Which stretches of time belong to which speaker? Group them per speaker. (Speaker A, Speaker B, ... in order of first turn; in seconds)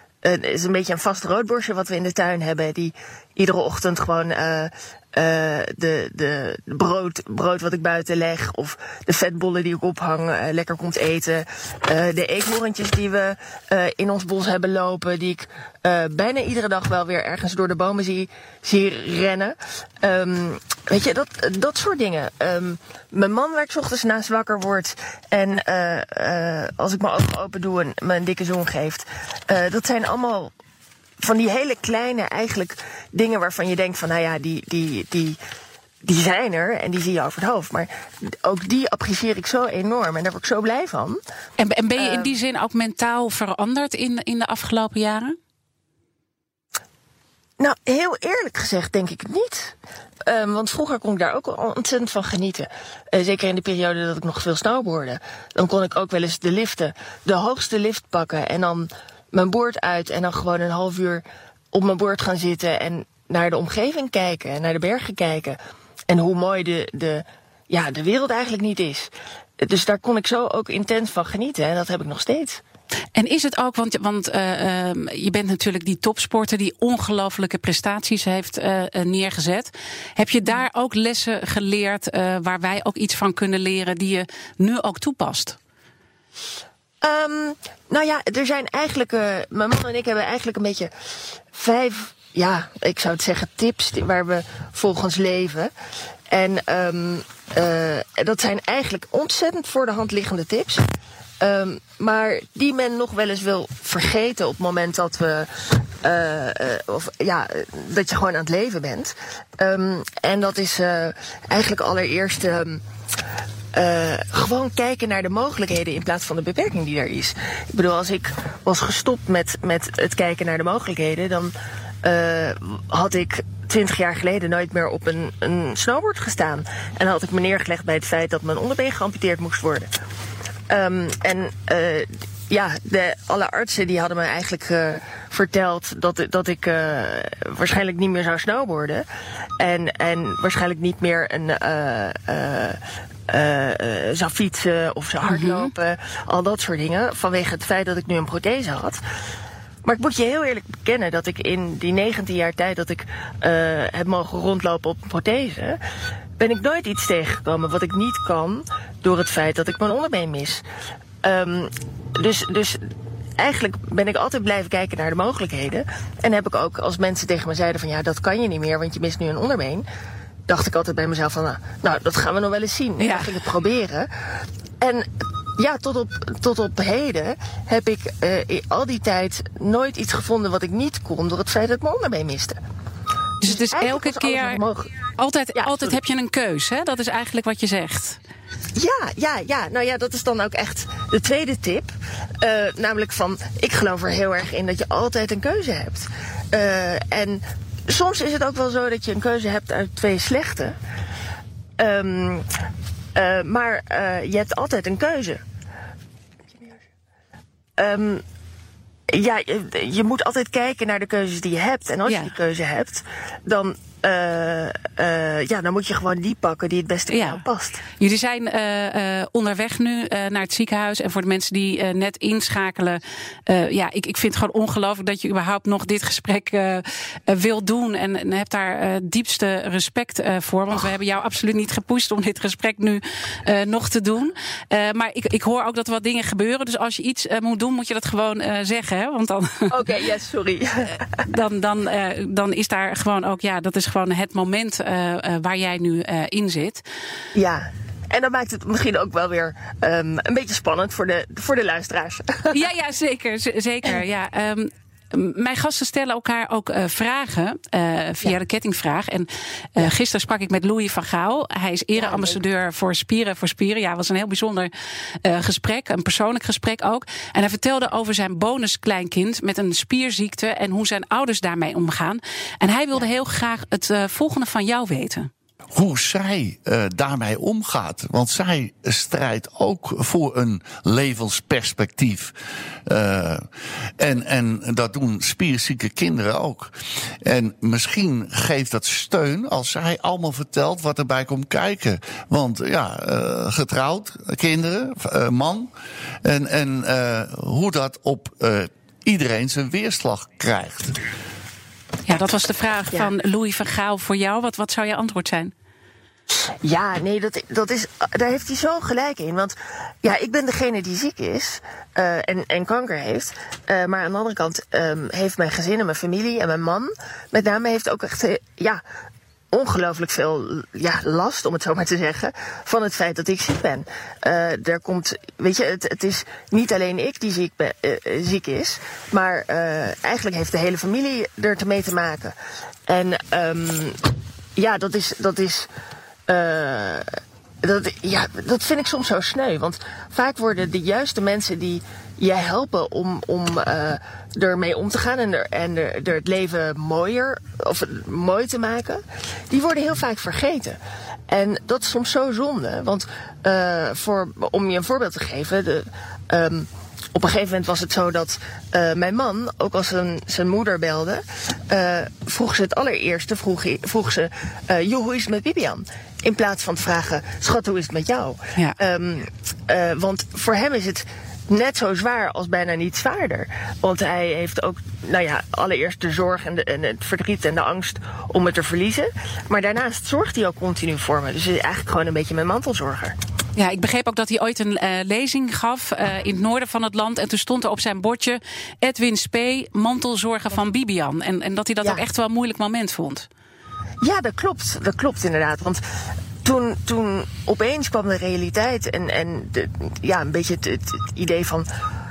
Speaker A: 0.2-30.5, 31.2-35.4, 36.0-41.2, 42.0-42.4, 47.6-49.7, 50.2-65.6, 66.1-72.6, 87.0-90.9, 91.5-95.7, 96.3-100.8, 101.4-112.8, 113.7-129.9, 130.7-139.1, 139.6-149.0, 149.8-155.8, 156.4-160.6, 161.2-162.8, 163.4-169.8, 170.5-174.1, 174.8-182.6, 183.4-184.9, 185.5-185.9, 188.8-200.8, 201.8-202.5, 203.1-205.4, 207.8-208.2, 209.1-217.8, 239.7-241.1, 247.3-252.6, 262.0-262.4, 306.6-318.8, 319.5-332.3, 332.9-335.7, 336.3-337.1, 337.6-350.8, 351.3-383.1, 394.0-395.8, 396.4-401.7
Speaker B: 41.6-45.4, 73.1-85.6, 145.3-145.7, 173.0-173.3, 183.4-184.6, 185.2-188.2, 212.1-212.3, 217.1-217.4, 218.0-239.8, 241.3-246.8, 252.5-264.7, 265.2-275.3, 302.1-305.5, 383.6-393.3
Speaker C: 275.7-282.3, 282.9-295.7, 296.2-301.0